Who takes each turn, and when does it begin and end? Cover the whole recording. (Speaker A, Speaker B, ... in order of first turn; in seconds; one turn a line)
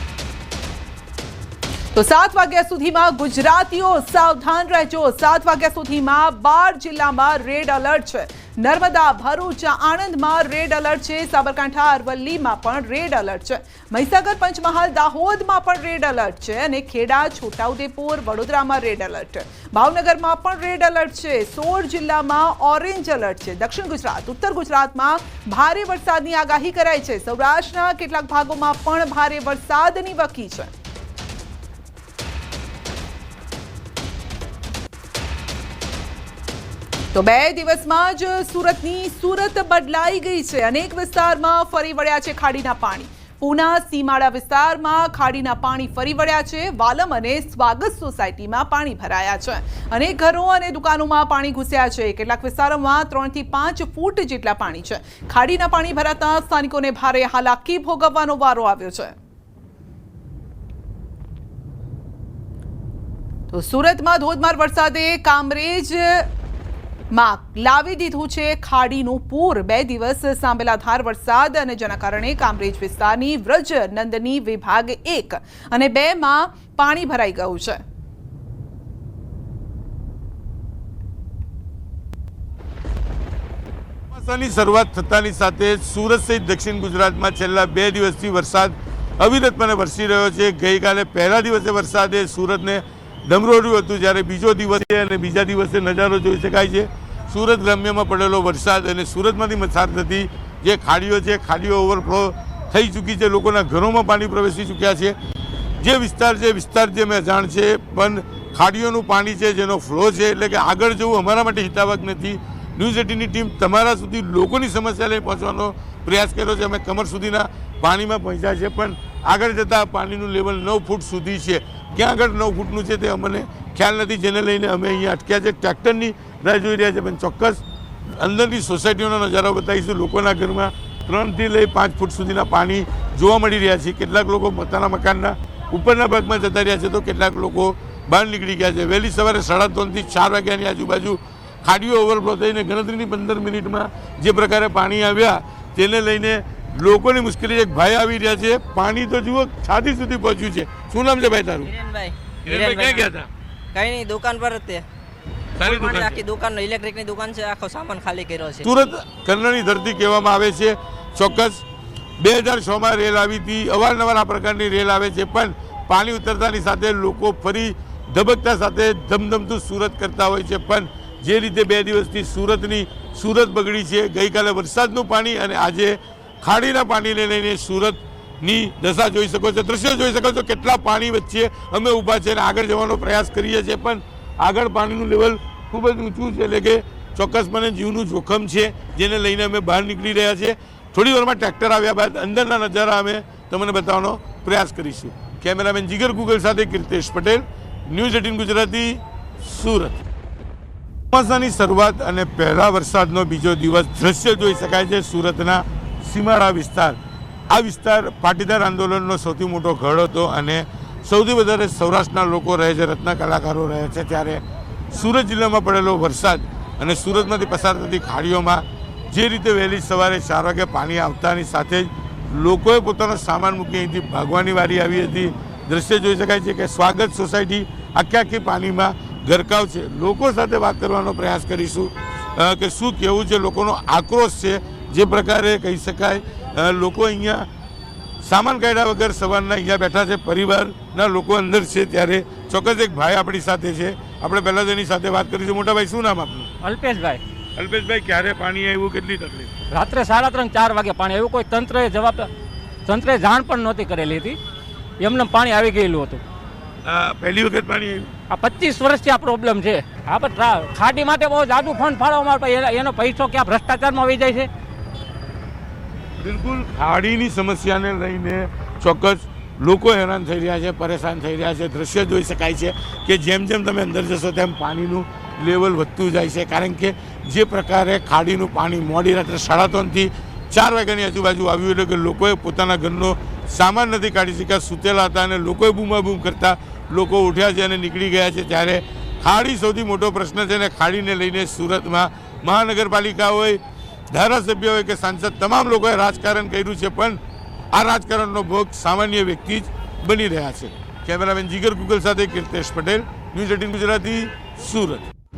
Speaker A: 1.9-30.7
Speaker A: 37.1-59.1
Speaker A: 63.5-66.3
Speaker A: 67.1-77.8
Speaker B: 84.1-105.2
Speaker B: 105.8-127.6
Speaker B: 128.1-151.7
Speaker C: 151.6-153.1
Speaker B: 152.4-153.3
Speaker C: 153.7-154.8
Speaker B: 155.6-156.2
Speaker C: 155.6-158.7
Speaker B: 158.6-161.6
Speaker B: 162.2-200.0
Speaker B: 201.1-207.0
Speaker B: 207.5-237.5
Speaker B: 238.2-246.5
Speaker D: 246.6-247.2
Speaker B: 247.6-249.5
Speaker D: 249.7-252.3
Speaker D: 252.9-254.4
Speaker D: 255.0-256.2
Speaker B: 256.8-258.1
Speaker D: 258.3-264.5
Speaker B: 266.2-297.2
Speaker B: 297.7-305.1